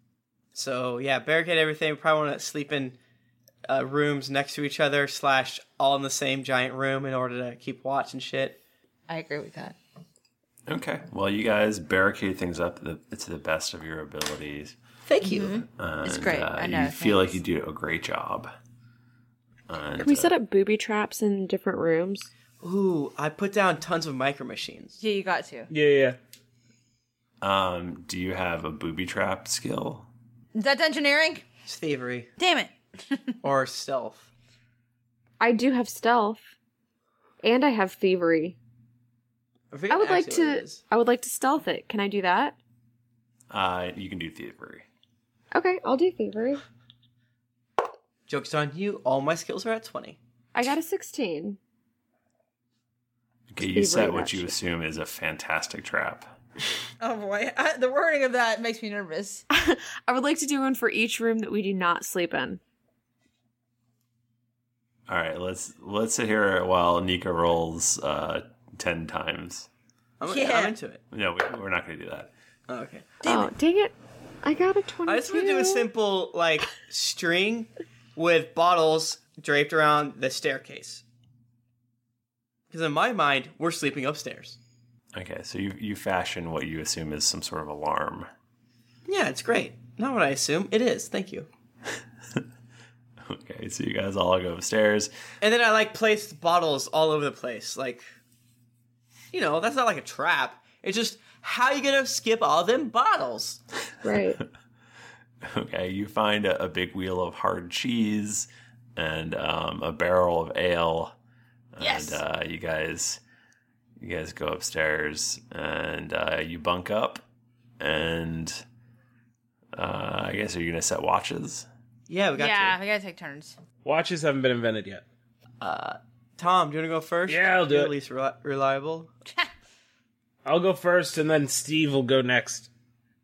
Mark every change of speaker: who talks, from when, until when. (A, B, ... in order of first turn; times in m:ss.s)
0:00.5-0:03.0 A
0:03.6-0:08.6 A
0:09.1-0:09.8 B
0:10.7-0:14.8 C
0:15.0-0:15.6 A
0:15.2-0:17.4 B
0:15.7-0:18.5 C
0:19.7-0:20.3 C
0:20.0-0:22.3 D
0:22.6-0:25.0 A
0:25.0-0:25.7 B
0:25.7-0:26.2 E
0:27.4-0:30.1 C
0:30.5-0:31.4 B
0:31.6-0:32.3 A
0:32.4-0:32.7 B
0:33.4-0:34.3 A
0:35.4-0:36.5 D
0:37.4-0:38.6 D
0:39.7-0:40.8 A
0:39.9-0:42.6 D
0:43.5-0:44.8 C
0:45.5-0:46.6 D
0:48.3-0:50.2 A
0:50.5-0:51.6 D
0:53.5-0:56.3 C
0:53.6-0:54.5 D
0:57.0-0:59.4 B
0:59.6-1:02.6 D
1:05.1-1:09.7 C
1:10.2-1:11.0 A
1:10.3-1:10.8 B
1:11.1-1:12.3 C
1:12.7-1:13.2 A
1:13.2-1:13.5 B
1:13.2-1:15.9 D
1:15.0-1:21.0 A
1:22.7-1:24.6 A
1:25.1-1:28.3 C
1:29.0-1:31.5 A
1:33.2-1:35.1 C
1:35.4-1:38.1 A
1:39.3-1:43.6 A
1:44.0-1:44.4 D
1:45.4-1:51.2 C
1:51.7-1:53.2 C
1:51.8-1:52.2 B
1:54.0-1:57.2 C
1:57.8-1:58.6 C
1:59.7-2:01.7 C
2:02.1-2:02.8 A
2:02.3-2:03.6 B
2:03.8-2:05.0 E
2:05.6-2:09.1 A
2:07.3-2:07.9 E
2:10.4-2:12.7 E